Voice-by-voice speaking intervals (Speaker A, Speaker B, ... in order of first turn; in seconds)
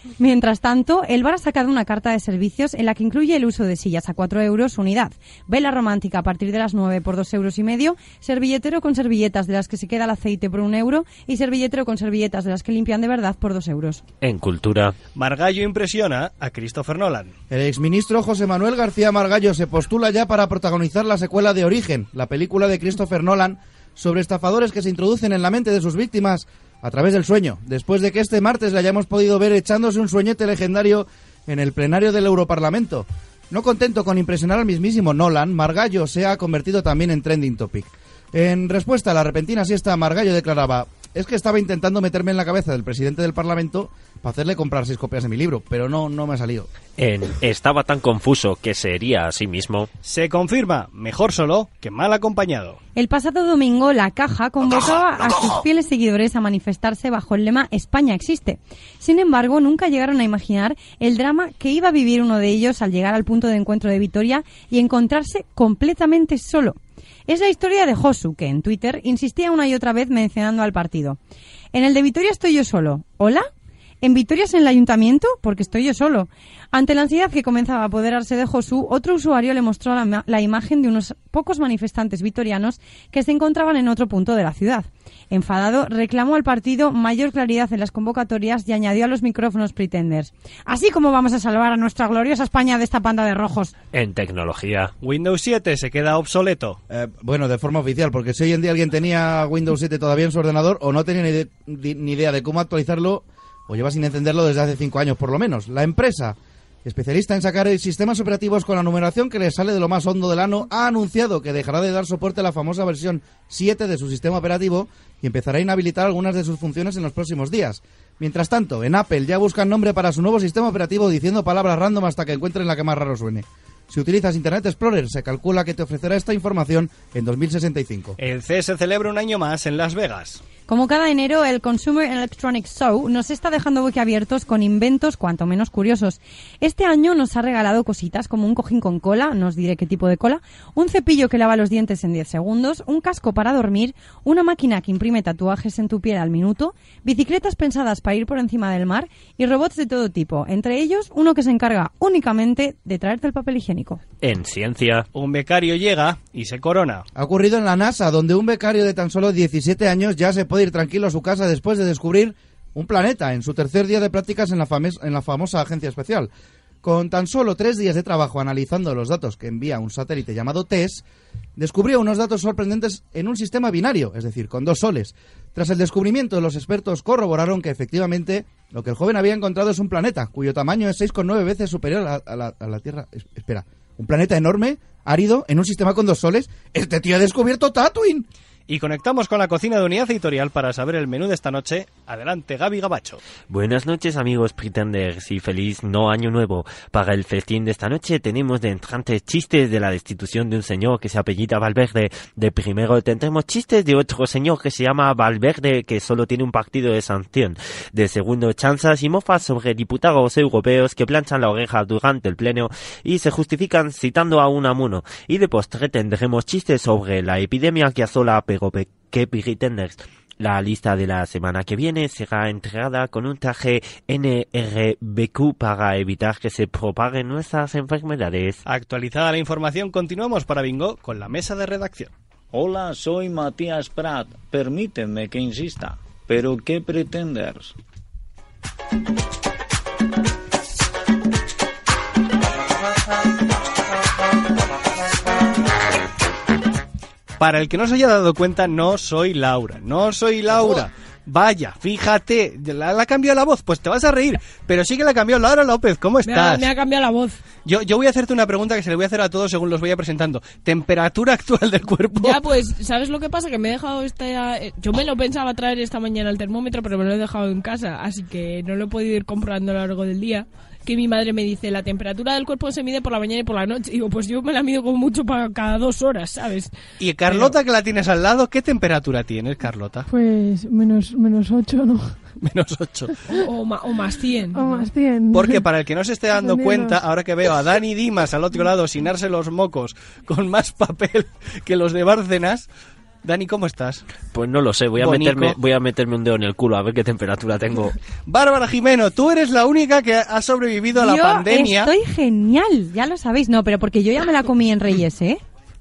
Speaker A: 0.2-14.0, 53.0-71.2, 71.7-73.5, 74.0-93.7, 130.7-154.0, 300.9-305.4
Speaker B: 14.2-14.9, 47.0-49.9, 93.9-94.9, 154.2-155.1, 193.5-228.6, 294.3-297.9
Speaker C: 15.2-17.3, 50.0-52.8, 95.0-96.8, 128.2-130.4, 155.1-157.1, 188.7-193.2, 228.7-232.1, 247.4-256.7, 257.6-262.4, 277.0-280.1, 282.4-283.2, 285.3-292.7, 293.2-294.0, 295.0-295.6, 298.3-301.9
Speaker D: 17.5-46.7, 96.9-128.2, 157.2-166.3, 166.8-171.0, 171.6-188.3
Speaker E: 232.5-237.8
Speaker F: 256.2-257.4, 262.2-276.7, 283.3-284.9
Speaker G: 280.1-282.2, 284.5-285.7, 286.3-287.0